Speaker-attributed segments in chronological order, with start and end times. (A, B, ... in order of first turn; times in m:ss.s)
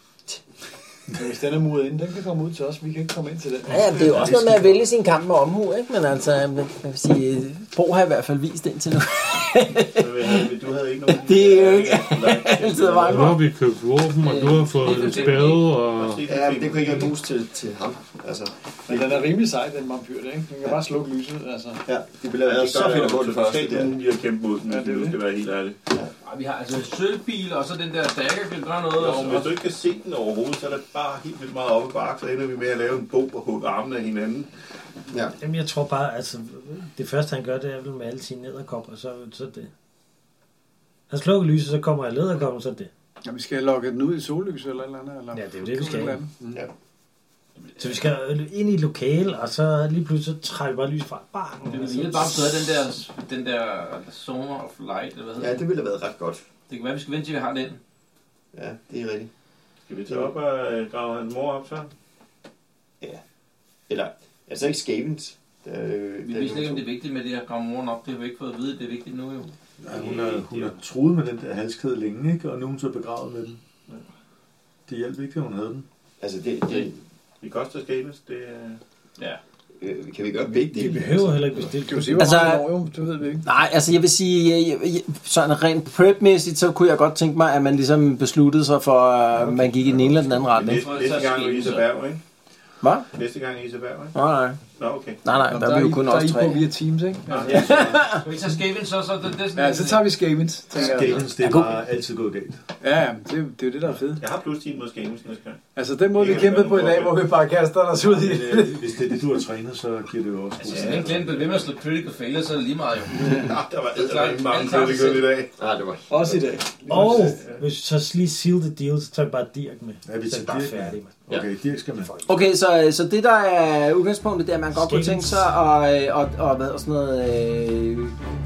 0:01.1-0:04.3 A
0:03.7-0:10.4 B
0:03.9-0:04.9 C
0:09.9-0:13.4 D
0:11.1-0:13.4 B
0:13.0-0:16.2 E
0:14.2-0:15.7 F
0:14.8-0:17.2 D
0:16.2-0:19.3 G
0:18.9-0:21.8 A
0:21.8-0:24.0 G
0:22.4-0:25.8 D
0:24.6-0:25.2 A
0:26.2-0:29.5 F
0:28.9-0:34.5 D
0:35.1-0:35.4 G
0:35.4-0:39.7 H
0:41.1-0:42.9 H
0:43.2-0:46.7 A
0:45.3-0:46.2 H
0:47.8-0:52.4 H
0:51.6-0:55.6 F
0:55.4-0:56.4 G
0:56.7-0:57.8 F
0:58.5-0:59.3 G
0:59.9-1:01.9 D
1:00.1-1:00.3 G
1:03.9-1:06.8 G
1:06.2-1:09.5 F
1:09.8-1:13.6 C
1:09.8-1:10.8 D
1:14.9-1:15.8 C
1:16.2-1:17.0 G
1:17.4-1:18.8 D
1:19.8-1:21.8 G
1:20.5-1:22.4 H
1:21.8-1:23.5 A
1:22.2-1:22.7 B
1:23.4-1:30.8 B
1:29.5-1:30.3 C
1:30.4-1:32.2 D
1:30.6-1:31.9 F
1:32.8-1:33.1 B
1:33.1-1:34.2 D
1:34.1-1:34.6 B
1:34.8-1:35.4 D
1:35.2-1:36.6 B
1:35.5-1:37.6 A
1:37.3-1:38.0 D
1:37.5-1:37.8 G
1:37.5-1:38.2 B
1:38.2-1:40.2 F
1:39.5-1:41.2 A
1:40.7-1:42.6 C
1:41.4-1:41.8 B
1:42.8-1:44.2 A
1:44.2-1:45.6 D
1:45.7-1:48.9 A
1:46.1-1:47.3 D
1:48.0-1:51.3 C
1:50.6-1:55.3 F
1:50.7-1:51.2 D
1:53.2-1:55.5 D
1:55.6-1:56.8 G
1:56.1-1:57.6 A
1:56.9-2:01.2 H
2:00.0-2:02.1 C
2:02.2-2:08.2 B
2:04.7-2:05.5 H